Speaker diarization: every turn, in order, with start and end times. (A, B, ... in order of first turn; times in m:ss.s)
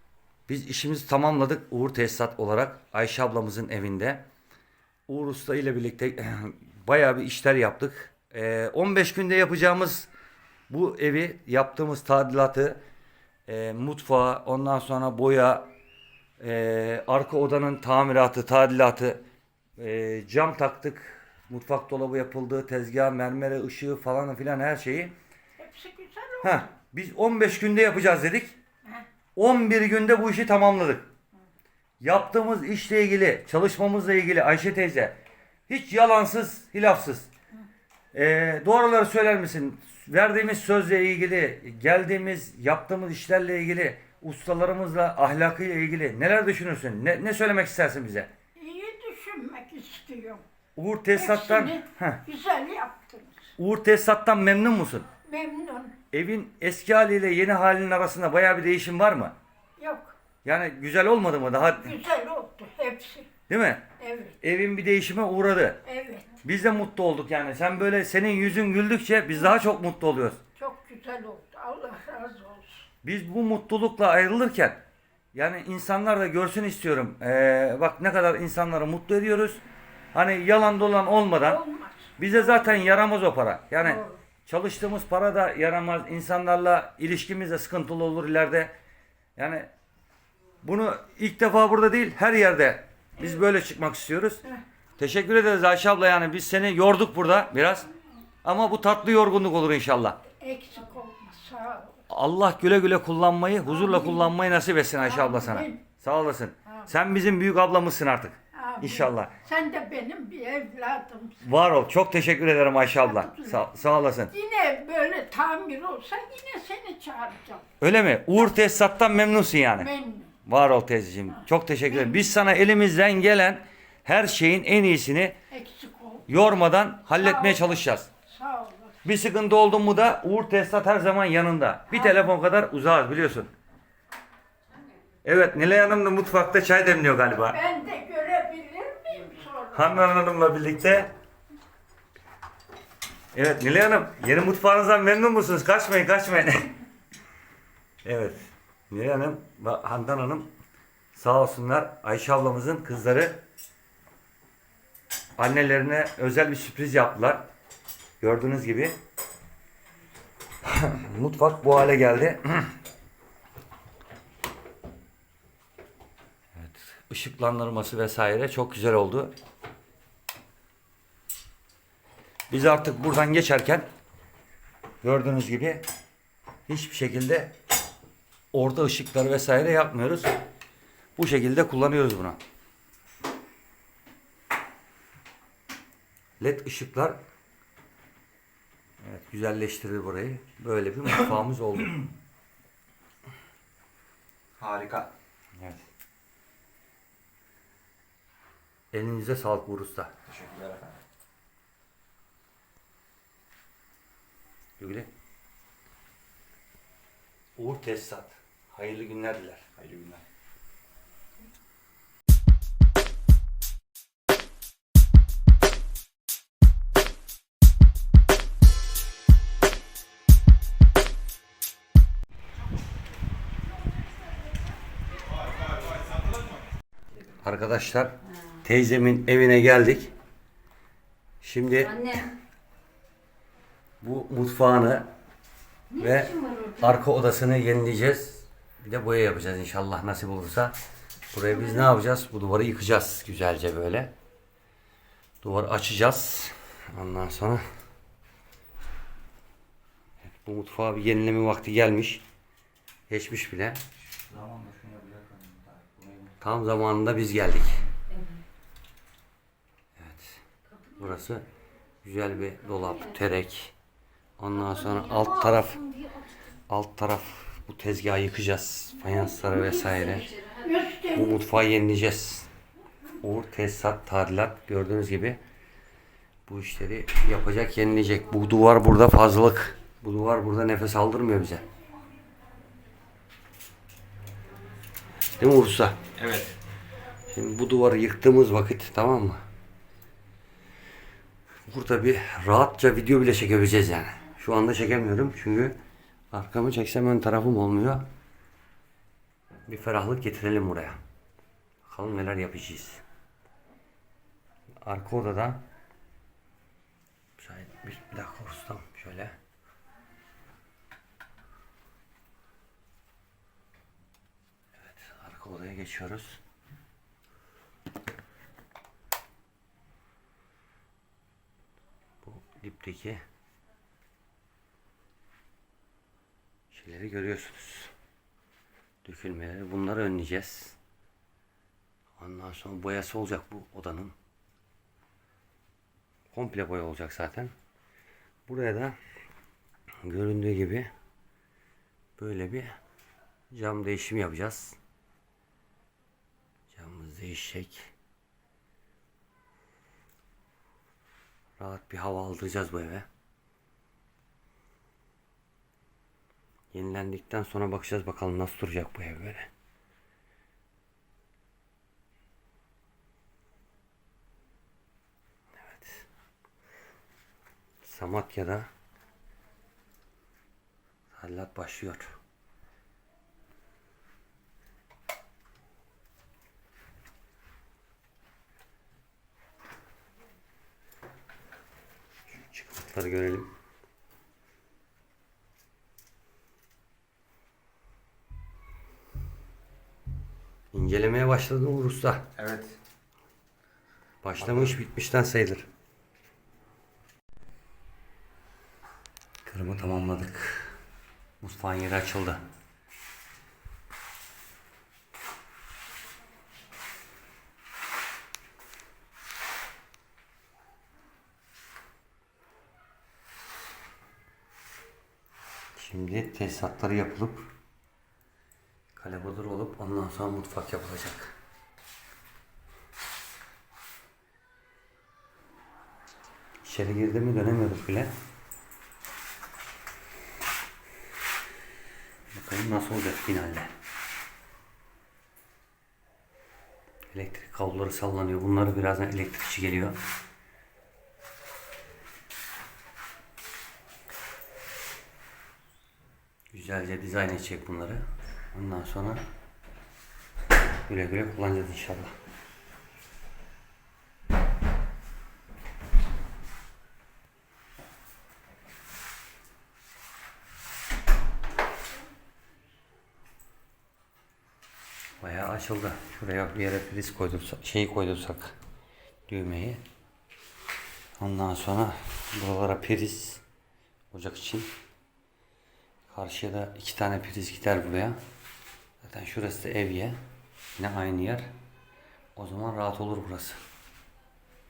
0:00.5-0:04.2 A
0:05.1-0:10.1 A
0:10.7-0:12.8 A
0:13.5-0:15.7 A
0:16.4-0:19.2 A
0:19.8-0:25.1 A
0:25.6-0:26.6 B
0:26.4-0:28.6 A
0:29.4-0:31.1 A
0:32.0-0:37.3 A
0:38.1-0:48.3 A
0:48.6-0:50.4 B
0:50.8-0:52.2 A
0:51.1-0:53.5 B
0:53.6-0:55.1 A
0:55.2-0:56.0 B
0:56.1-0:59.3 A
0:59.8-1:00.1 B
1:00.4-1:02.0 A
1:01.8-1:03.3 B
1:03.5-1:03.8 A
1:04.0-1:04.4 B
1:04.4-1:05.8 A
1:05.8-1:06.3 B
1:06.4-1:10.4 A
1:10.6-1:12.8 B
1:13.0-1:14.8 A
1:15.3-1:19.6 A
1:20.1-1:21.6 A
1:21.5-1:22.3 B
1:22.2-1:28.7 A
1:23.8-1:24.2 B
1:29.4-1:29.7 A
1:30.6-1:34.4 A
1:35.0-1:37.9 A
1:38.4-1:40.2 A
1:40.4-1:42.0 B
1:42.1-1:49.3 A
1:43.7-1:44.3 B
1:45.0-1:45.8 B
1:48.6-1:51.4 B
1:51.4-1:54.3 A
1:53.0-1:53.7 B
1:54.3-1:57.6 B
1:57.8-1:59.9 A
1:59.8-2:00.3 B
2:00.4-2:05.4 A
2:01.9-2:02.2 B
2:05.5-2:06.2 B
2:06.3-2:08.1 A
2:07.2-2:09.0 B
2:09.0-2:13.5 A
2:15.2-2:17.6 A
2:17.5-2:20.0 B
2:19.7-2:21.1 A
2:23.3-2:26.7 A
2:28.0-2:30.5 A
2:31.1-2:33.4 A
2:35.4-2:37.4 A
2:38.2-2:39.0 A
2:40.6-2:42.7 A
2:46.5-2:49.3 A
2:52.5-2:53.8 A
2:55.0-2:55.8 A
2:56.7-2:57.6 A
2:58.5-3:00.3 A
3:01.2-3:02.4 A
3:06.4-3:07.2 A
3:09.0-3:12.1 A
3:14.6-3:15.1 C
3:15.6-3:15.8 A
3:18.9-3:20.1 A
3:20.3-3:20.9 C
3:24.8-3:25.1 A
3:27.6-3:29.6 A
3:29.8-3:30.2 C
3:47.4-3:50.1 A
3:51.4-3:52.2 A
3:52.0-3:52.2 C
3:54.0-3:55.1 A
3:55.9-4:00.8 A
3:56.3-3:56.8 C
4:01.3-4:04.1 A
4:05.4-4:07.6 A
4:10.2-4:12.2 A
4:13.1-4:13.8 A
4:14.3-4:16.3 C
4:16.4-4:17.8 A
4:20.0-4:21.4 A
4:22.0-4:23.7 A
4:24.4-4:25.9 A
4:26.7-4:30.4 A
4:30.6-4:31.3 B
4:31.1-4:32.5 A
4:33.2-4:35.4 A
4:36.5-4:41.6 A
4:45.4-4:46.5 A
4:47.3-4:49.4 A
4:51.7-4:55.8 A
4:56.3-4:58.0 A
4:59.7-5:01.0 A
5:01.8-5:03.0 A
5:04.8-5:05.6 A
5:07.4-5:09.3 A
5:14.8-5:16.4 A
5:22.2-5:23.2 A
5:26.7-5:27.9 A
5:29.0-5:30.8 A
5:32.2-5:34.1 A
5:36.3-5:37.5 A
5:38.5-5:39.0 A
5:40.0-5:40.9 A
5:42.2-5:42.8 A
5:43.5-5:44.8 A
5:46.7-5:47.9 A
5:51.6-5:53.0 A
5:56.7-5:59.5 A
6:05.6-6:06.0 A
6:07.8-6:08.7 A
6:11.1-6:12.1 A
6:22.4-6:23.5 A
6:30.7-6:32.3 A
6:32.4-6:32.7 C
6:34.2-6:35.6 A
6:39.4-6:40.8 A
6:41.4-6:42.4 A
6:55.8-6:57.5 A
6:58.9-7:01.3 A
7:06.6-7:08.1 A
7:12.3-7:13.7 A
7:17.1-7:20.0 A
7:26.5-7:29.2 A
7:30.9-7:32.1 A
7:45.2-7:48.5 A
7:49.3-7:49.8 A
7:51.2-7:53.4 A
7:54.1-7:54.7 A
7:56.1-7:58.2 A
7:59.0-8:00.2 A
8:00.8-8:01.5 A
8:02.4-8:03.6 A